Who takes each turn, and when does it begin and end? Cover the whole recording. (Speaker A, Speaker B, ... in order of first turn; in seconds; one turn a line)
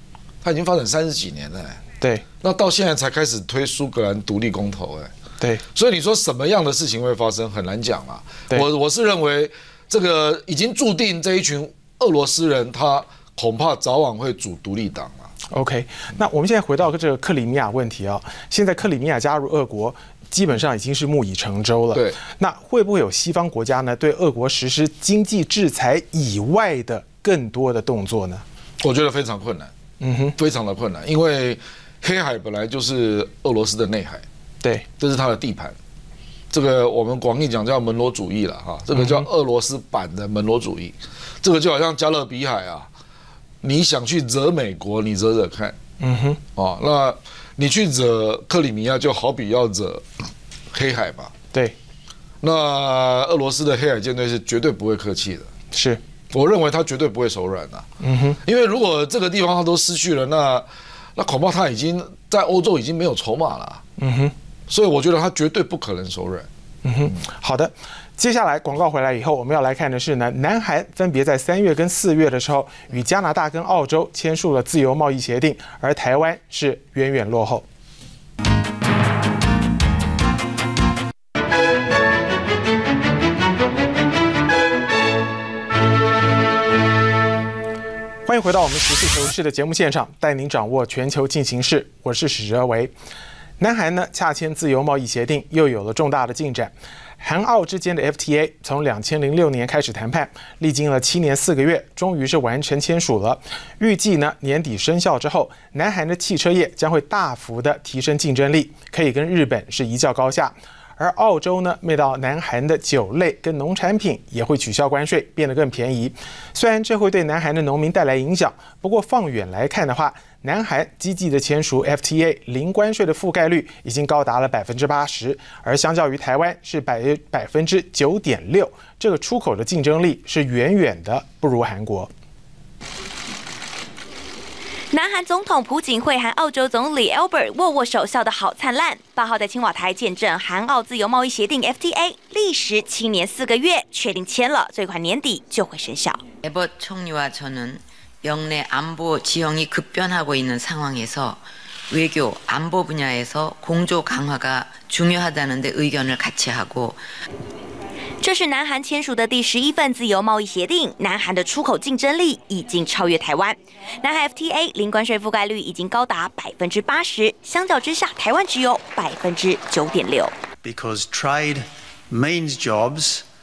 Speaker A: 0.4-1.8
Speaker A: 2.4-5.1
Speaker A: 5.7-15.3
Speaker B: 15.5-28.4
Speaker A: 28.8-29.7
Speaker B: 30.0-30.4
Speaker A: 30.4-34.2
Speaker A: 35.0-35.8
Speaker A: 36.5-42.9
Speaker B: 38.9-39.3
Speaker A: 43.6-45.8
Speaker B: 46.0-46.4
Speaker A: 46.5-50.0
Speaker A: 50.7-51.3
Speaker A: 52.4-55.5
Speaker B: 55.7-56.0
Speaker A: 56.3-57.9
Speaker B: 58.0-58.4
Speaker A: 58.4-63.8
Speaker B: 64.0-64.3
Speaker A: 64.7-66.5
Speaker B: 66.8-77.6
Speaker B: 88.2-92.9
Speaker B: 93.6-132.1
Speaker C: 134.9-146.2
Speaker D: 146.4-157.0
Speaker C: 158.2-170.3
Speaker E: 170.6-173.2